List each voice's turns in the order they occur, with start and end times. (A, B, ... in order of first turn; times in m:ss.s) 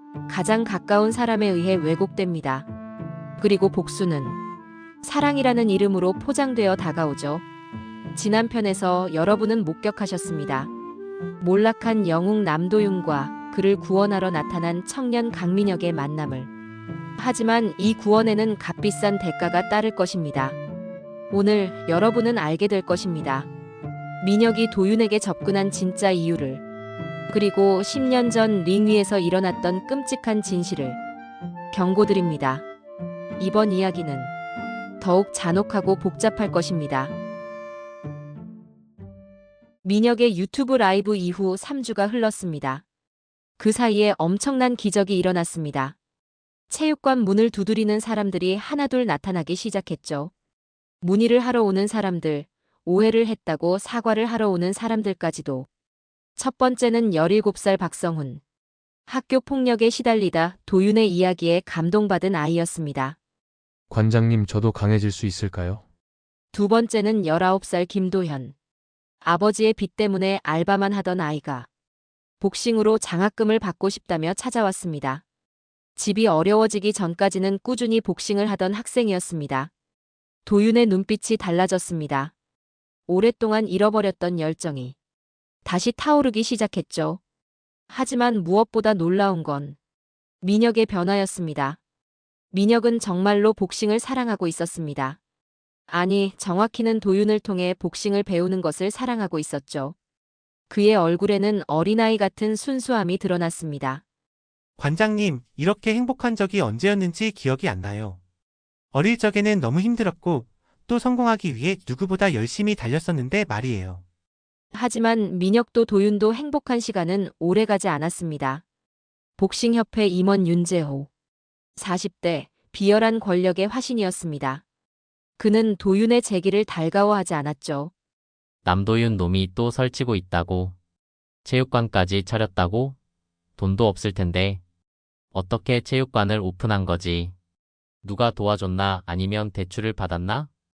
0:00.3-0:02.7 A
0:03.4-0:04.4 A
0:05.0-0:07.4 A
0:08.1-0:10.7 A
0:11.4-0:16.5 A
0:17.2-0:20.6 A
0:21.3-0:23.5 A
0:24.2-0:26.6 A
0:27.3-0:31.0 A
0:31.7-0:32.6 A
0:33.4-0:34.3 A
0:35.0-0:37.1 A
0:39.8-0:42.8 A
0:43.6-0:45.9 A
0:46.7-0:50.3 A
0:51.0-0:55.7 A
0:56.4-0:58.4 A
0:59.1-1:03.2 A
1:03.9-1:05.8 B
1:06.5-1:08.5 A
1:09.2-1:11.7 A
1:12.4-1:15.2 A
1:16.0-1:19.7 A
1:20.4-1:22.3 A
1:23.1-1:24.9 A
1:25.6-1:27.2 A
1:27.9-1:29.8 A
1:30.4-1:31.8 A
1:32.5-1:35.2 A
1:35.9-1:39.9 A
1:40.7-1:44.0 A
1:44.8-1:48.2 C
1:48.9-1:54.0 C
1:54.7-1:58.6 A
1:59.4-2:01.1 A
2:01.8-2:04.6 A
2:05.4-2:07.9 A
2:08.6-2:10.8 D
2:11.4-2:13.0 D
2:13.6-2:14.6 D
2:15.3-2:17.3 D
2:18.0-2:20.5 D